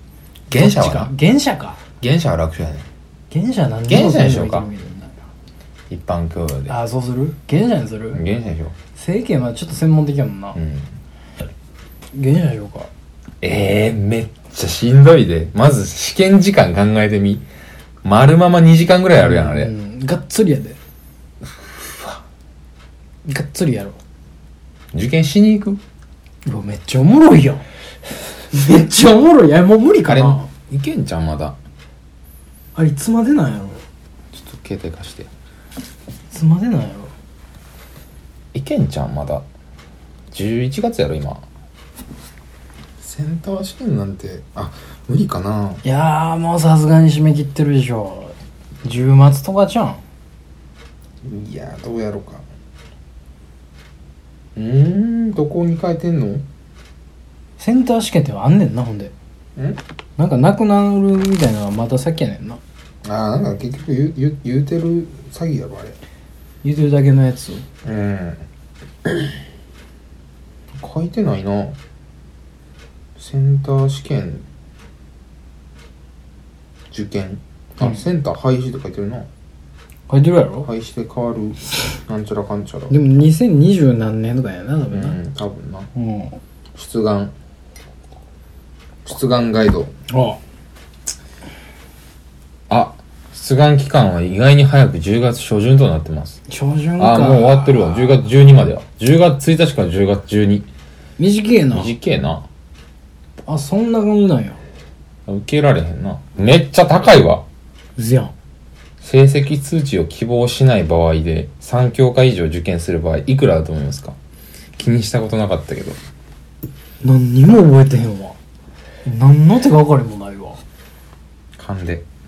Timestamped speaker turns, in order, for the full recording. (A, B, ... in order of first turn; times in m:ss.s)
0:00.5-0:01.1 A
0:00.5-0:01.8 B
0:02.0-0:02.9 A
0:03.3-0:05.2 B
0:03.9-0:04.7 A
0:05.9-0:06.8 A
0:06.7-0:08.2 B
0:08.1-0:08.7 A
0:09.0-0:10.6 B
0:10.6-0:10.9 A
0:12.1-0:12.9 B
0:13.4-0:17.4 A
0:18.0-0:19.7 A
0:19.2-0:20.8 B
0:21.6-0:22.2 A
0:23.3-0:24.0 B
0:24.9-0:25.8 A
0:26.5-0:27.6 B
0:28.5-0:30.5 B
0:30.0-0:31.6 A
0:32.8-0:33.8 B
0:34.3-0:35.3 A
0:36.3-0:37.1 B
0:38.5-0:39.4 A
0:40.3-0:41.4 A
0:43.0-0:45.8 A
0:45.8-0:50.0 B
0:51.2-0:52.4 A
0:54.6-0:56.4 A
0:57.6-0:59.1 B
1:00.2-1:02.6 B
1:03.0-1:06.0 A
1:06.6-1:07.6 B
1:07.8-1:08.4 A
1:10.8-1:11.8 A
1:13.2-1:14.4 A
1:16.9-1:19.3 A
1:20.1-1:20.7 B
1:20.6-1:22.9 A
1:22.9-1:25.2 B
1:24.9-1:25.9 A
1:26.0-1:26.4 B
1:26.7-1:27.3 A
1:29.0-1:29.9 A
1:30.1-1:30.4 B
1:32.7-1:36.4 A
1:36.5-1:38.2 B
1:37.0-1:40.7 A
1:41.2-1:41.9 B
1:41.7-1:42.4 A
1:43.5-1:44.6 B
1:45.3-1:47.4 A
1:48.0-1:48.3 B
1:49.0-1:54.2 A
1:54.8-1:56.0 A
1:57.0-1:58.4 B
1:59.0-2:00.6 B
2:01.6-2:02.0 A